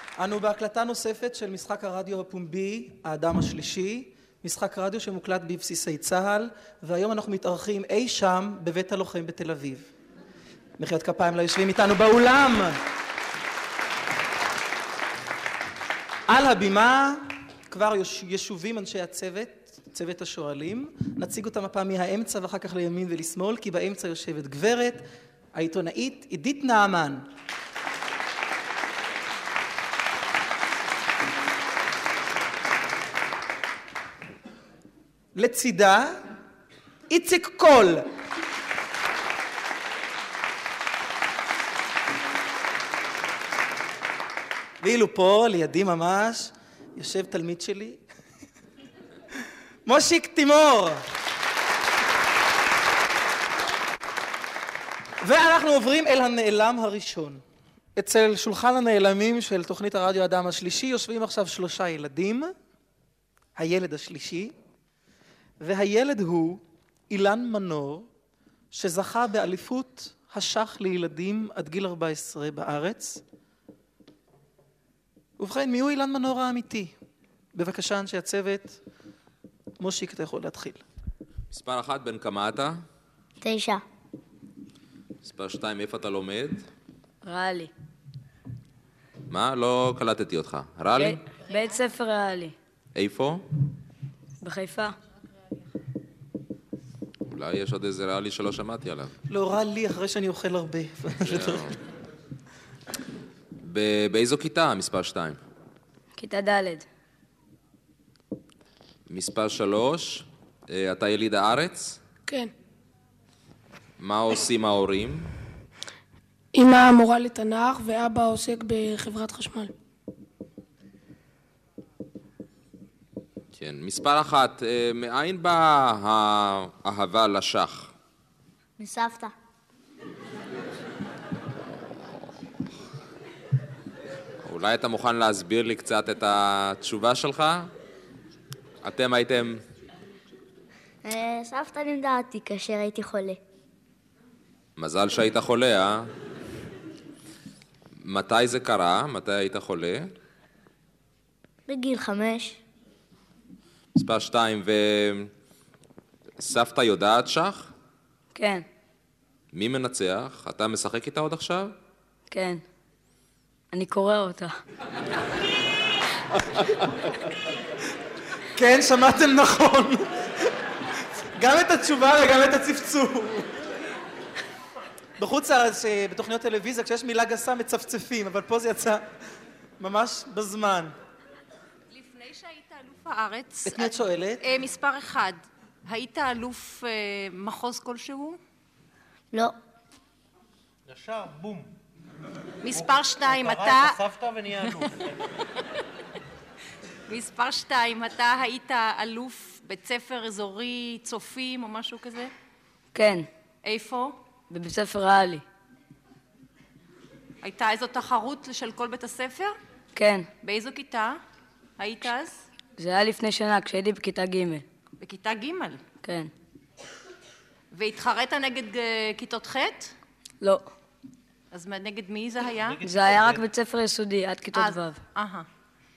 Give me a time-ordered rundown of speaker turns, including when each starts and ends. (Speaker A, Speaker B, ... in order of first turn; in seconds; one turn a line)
Speaker A: 0.2-9.9
Speaker A: 10.8-12.8
Speaker A: 16.3-27.3
Speaker A: 35.4-36.3
Speaker A: 37.1-38.1
Speaker A: 44.8-48.0
Speaker A: 49.9-51.0
Speaker A: 55.2-57.4
Speaker A: 58.0-62.5
Speaker A: 63.6-64.6
Speaker A: 65.6-68.1
Speaker A: 68.7-73.2
Speaker A: 75.4-76.9
Speaker A: 77.5-78.8
Speaker A: 79.8-80.8
Speaker B: 81.5-82.8
Speaker C: 83.4-83.8
Speaker B: 85.2-86.7
Speaker D: 87.2-87.7
Speaker B: 89.3-91.2
Speaker D: 91.0-92.5
Speaker B: 93.0-93.4
Speaker D: 94.4-95.0
Speaker B: 97.3-99.1
Speaker A: 99.3-101.7
Speaker B: 101.2-101.8
Speaker B: 103.6-105.4
Speaker D: 106.2-106.9
Speaker B: 109.1-112.0
Speaker B: 114.0-115.3
Speaker E: 116.5-119.7
Speaker B: 123.5-127.9
Speaker C: 128.8-129.3
Speaker B: 134.4-137.7
Speaker B: 138.8-139.6
Speaker C: 141.0-143.4
Speaker B: 144.8-146.1
Speaker B: 148.0-150.1
Speaker C: 151.7-152.6
Speaker B: 153.9-155.3
Speaker B: 156.4-157.7
Speaker D: 158.3-158.7
Speaker B: 159.5-161.7
Speaker D: 162.3-162.6
Speaker D: 163.7-164.5
Speaker A: 168.6-170.5
Speaker A: 171.4-173.6
Speaker A: 175.2-179.1
Speaker A: 179.8-180.9
Speaker F: 181.9-188.4
Speaker A: 183.7-184.4
Speaker G: 190.9-191.8
Speaker F: 192.6-194.0
Speaker G: 192.7-195.0
Speaker F: 197.1-202.3
Speaker D: 202.9-203.3
Speaker F: 203.6-204.2
Speaker D: 204.5-205.4
Speaker F: 207.4-209.6
Speaker D: 210.0-210.3
Speaker F: 210.4-211.2
Speaker F: 211.8-212.4
Speaker D: 212.8-214.7
Speaker F: 215.0-215.8
Speaker D: 216.0-216.3
Speaker F: 217.7-219.9
Speaker D: 220.4-220.7
Speaker F: 221.5-222.8
Speaker G: 222.6-223.4
Speaker D: 222.8-225.0
Speaker F: 224.6-225.5